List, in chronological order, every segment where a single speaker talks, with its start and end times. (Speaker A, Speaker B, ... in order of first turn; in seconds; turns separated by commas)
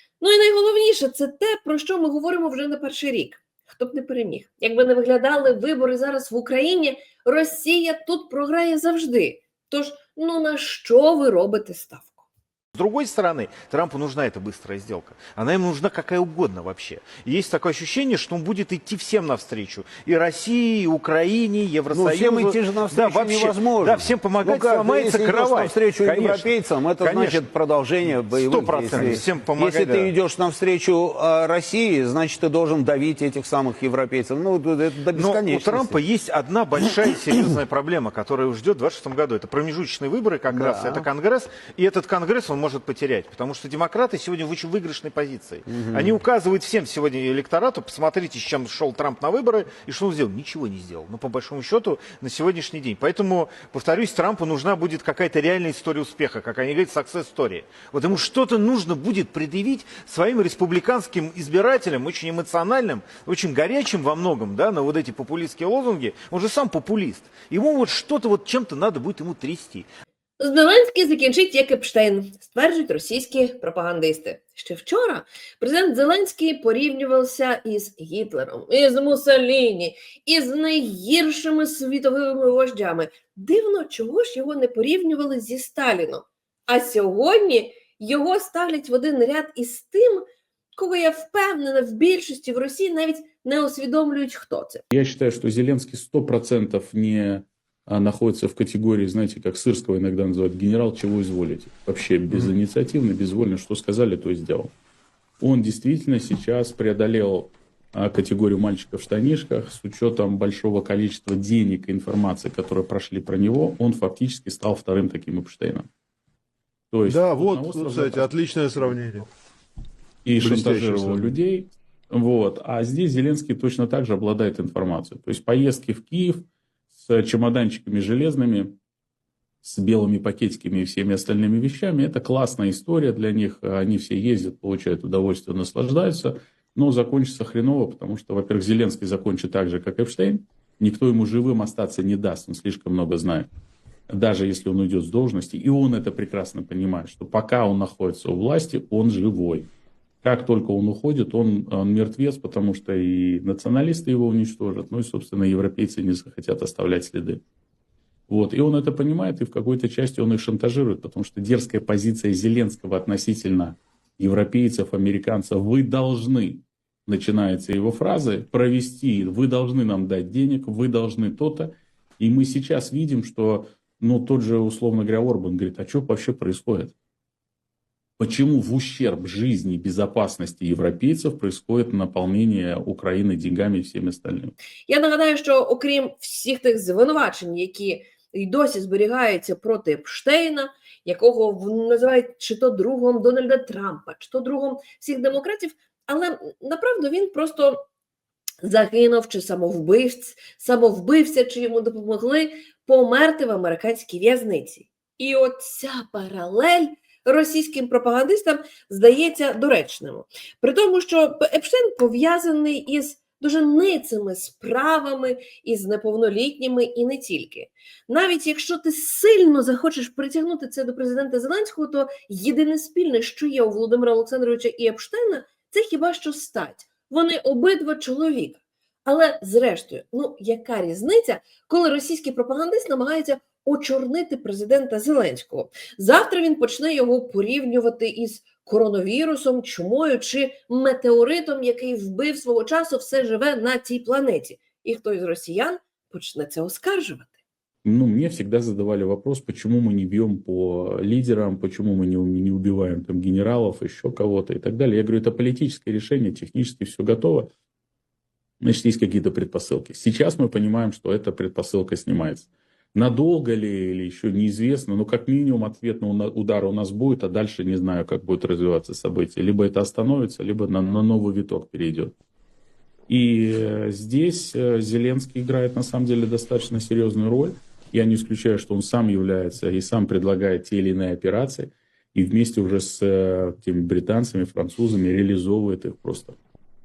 Speaker A: 0.2-12.2, Speaker B: 12.7-27.5, Speaker C: 21.9-36.0, Speaker B: 28.0-30.1, Speaker B: 35.1-69.9, Speaker C: 40.5-41.0, Speaker C: 45.7-46.2, Speaker A: 70.4-90.2, Speaker A: 90.8-94.8, Speaker D: 94.9-104.7, Speaker D: 105.4-115.9, Speaker D: 116.9-118.3, Speaker E: 117.0-119.3, Speaker D: 120.2-128.8, Speaker E: 120.4-121.3, Speaker D: 129.6-143.5, Speaker D: 144.1-149.7, Speaker D: 150.2-157.4, Speaker D: 158.3-176.9, Speaker D: 178.2-184.5, Speaker A: 184.9-197.8, Speaker A: 198.6-247.3, Speaker D: 247.8-257.5, Speaker D: 258.6-272.1, Speaker D: 273.1-286.4